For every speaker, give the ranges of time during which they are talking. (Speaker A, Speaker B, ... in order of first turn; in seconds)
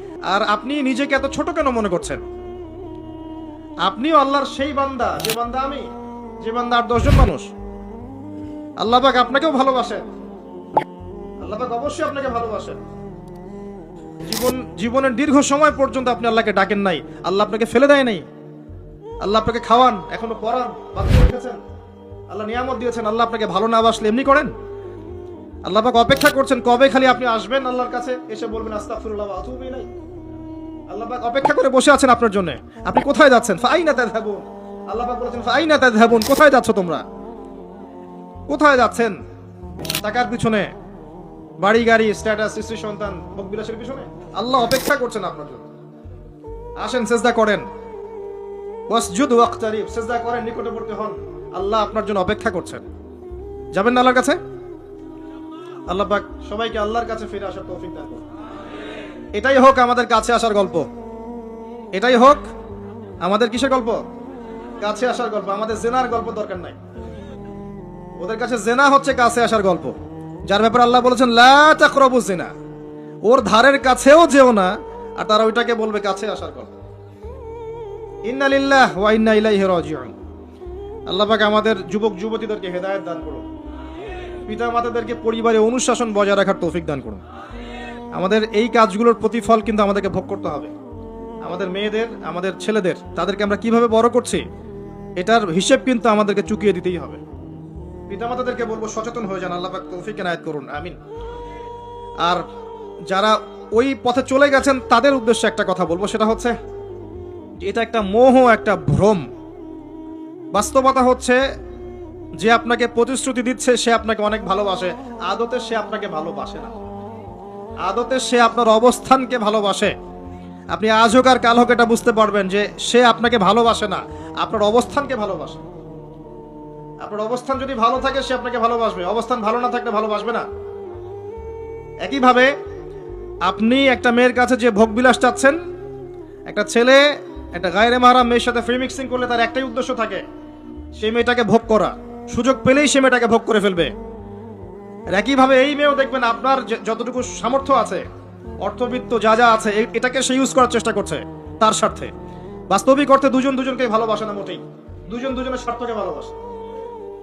Speaker A: 0.3-2.2, 3.8-5.9, 6.4-7.5, 8.8-10.0, 11.4-12.8, 14.2-18.2, 19.2-21.6, 22.3-24.5, 25.6-29.9, 30.9-37.0, 38.5-39.2, 40.0-40.7, 41.6-45.7, 46.8-47.6, 48.9-52.8, 53.7-54.4, 55.9-58.2, 59.3-60.9, 61.9-62.5, 63.2-64.0, 64.8-66.8, 68.2-69.9, 70.5-72.5, 73.2-76.7, 78.2-80.1, 81.1-83.4, 84.5-87.2, 88.1-90.7, 91.4-94.4, 95.2-97.2, 98.1-101.0, 103.1-106.5, 107.6-109.2, 110.5-111.4, 112.4-116.7, 117.8-119.9, 120.7-125.6, 127.0-130.4, 132.0-132.5, 133.4-135.6, 136.5-140.2, 140.9-143.9, 145.1-148.1, 148.6-152.1, 152.7-156.3